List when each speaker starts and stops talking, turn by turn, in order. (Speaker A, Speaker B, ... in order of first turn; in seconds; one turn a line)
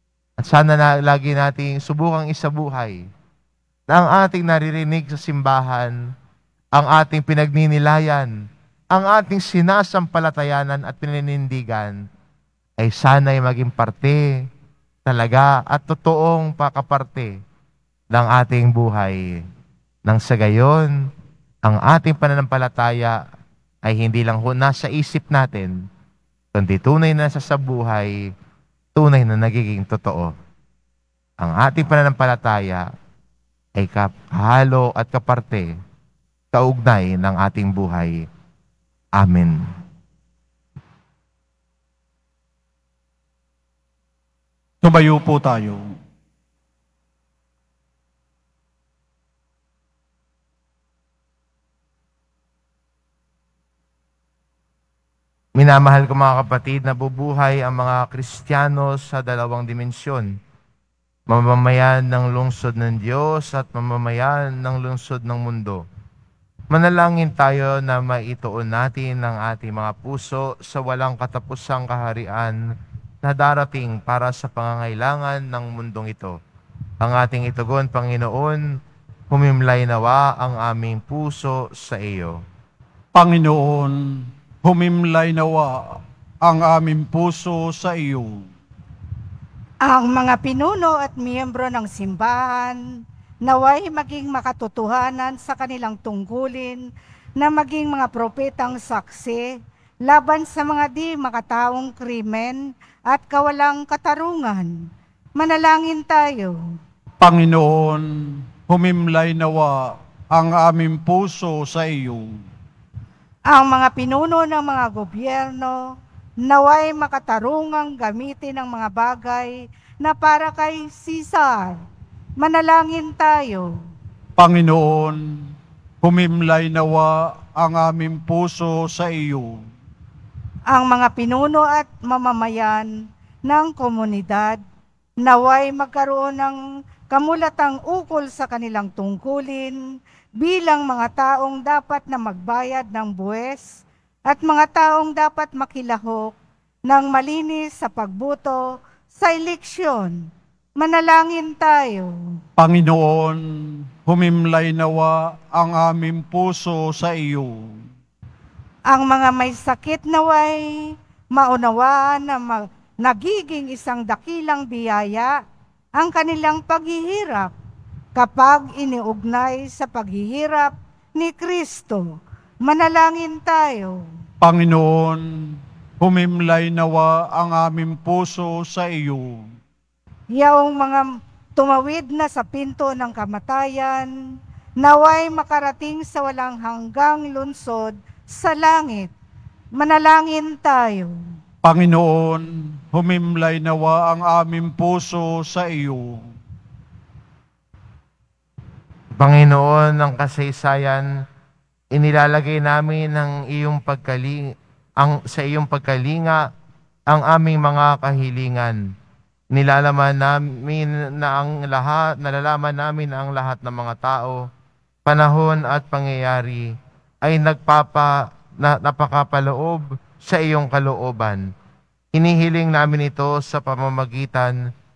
Speaker A: 0.4-3.0
Speaker A: 3.9-6.0
Speaker A: 6.7-8.3
Speaker A: 8.9-12.0
Speaker A: 12.8-14.3
Speaker A: 15.1-17.4
Speaker A: 18.1-19.4
Speaker A: 20.1-21.0
Speaker A: 21.6-23.2
Speaker A: 23.8-25.8
Speaker A: 26.5-28.3
Speaker A: 29.0-30.3
Speaker A: 31.4-32.9
Speaker A: 33.8-35.7
Speaker A: 36.5-38.2
Speaker A: 39.1-39.6
Speaker B: 44.8-46.0
Speaker A: 55.6-60.3
Speaker A: 61.3-65.8
Speaker A: 66.7-72.6
Speaker A: 73.2-76.4
Speaker A: 77.0-78.7
Speaker A: 79.3-82.4
Speaker B: 83.1-88.5
Speaker C: 89.8-92.8
Speaker C: 93.5-96.8
Speaker C: 97.4-106.6
Speaker B: 107.2-112.4
Speaker C: 113.5-121.8
Speaker C: 122.4-123.7
Speaker B: 124.4-129.7
Speaker C: 130.7-134.6
Speaker C: 135.2-136.6
Speaker C: 137.1-139.8
Speaker C: 140.4-146.4
Speaker C: 146.9-152.4
Speaker B: 152.6-157.9
Speaker C: 158.9-165.4
Speaker C: 166.0-167.5
Speaker C: 168.2-174.1
Speaker B: 174.4-179.5
Speaker C: 180.3-184.1
Speaker C: 184.8-189.1
Speaker C: 189.8-191.2
Speaker B: 191.6-196.3
Speaker A: 199.2-201.1
Speaker A: 201.9-206.5
Speaker A: 207.1-208.8
Speaker A: 209.5-214.4
Speaker A: 215.1-216.7
Speaker A: 217.2-221.5
Speaker A: 222.1-224.6